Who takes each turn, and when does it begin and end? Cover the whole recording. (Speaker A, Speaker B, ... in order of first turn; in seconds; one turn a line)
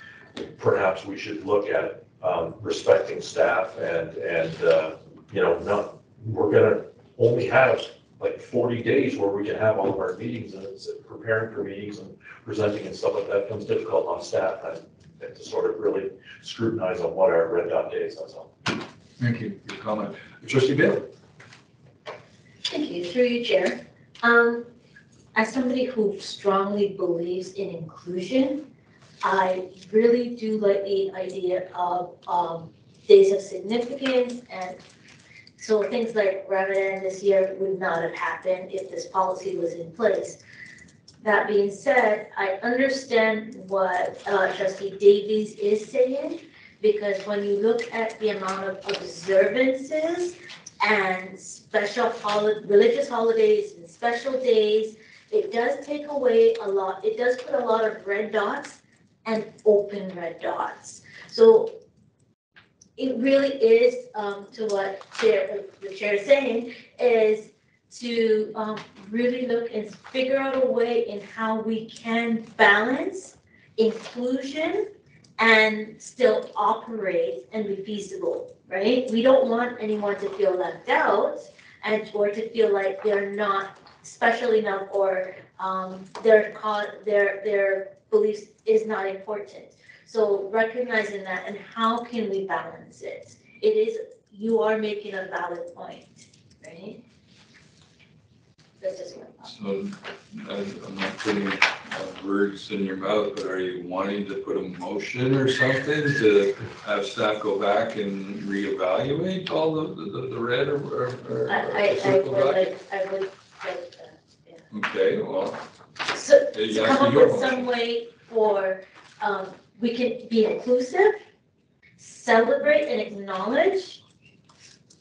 Speaker A: 0.6-18.5
Speaker B: 19.2-21.1
Speaker C: 22.7-24.7
Speaker C: 25.3-28.7
Speaker C: 29.2-34.8
Speaker C: 35.6-40.4
Speaker C: 41.2-61.8
Speaker C: 63.0-97.0
Speaker C: 98.8-99.5
Speaker B: 99.4-112.7
Speaker C: 111.5-114.6
Speaker B: 114.7-115.6
Speaker C: 116.1-121.2
Speaker B: 116.5-117.7
Speaker C: 122.0-124.0